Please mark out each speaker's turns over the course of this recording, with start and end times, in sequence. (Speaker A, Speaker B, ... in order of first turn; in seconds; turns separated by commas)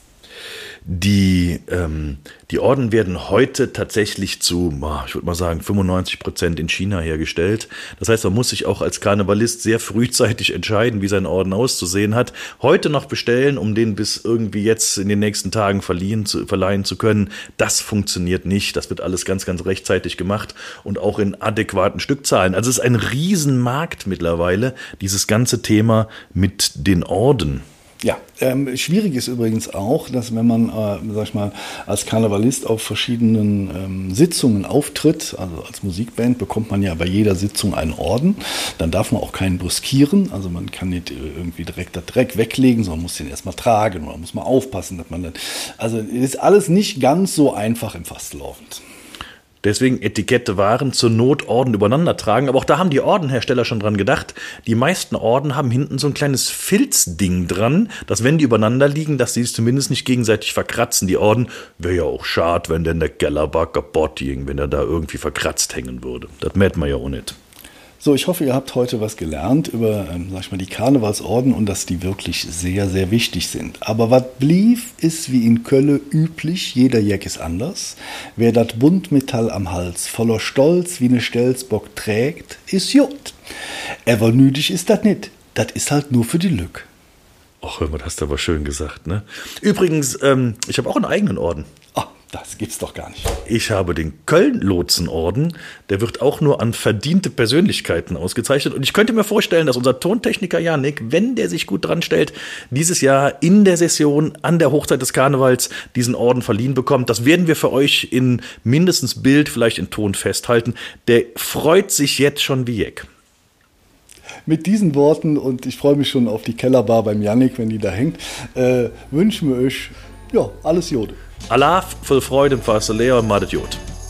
Speaker A: 0.8-27.6, Speaker B: 28.0-48.8, Speaker A: 49.6-67.3, Speaker B: 68.0-83.3, Speaker B: 84.0-86.9, Speaker A: 87.6-91.7, Speaker B: 91.9-93.3, Speaker A: 93.5-113.1, Speaker B: 114.5-121.2, Speaker A: 121.5-123.8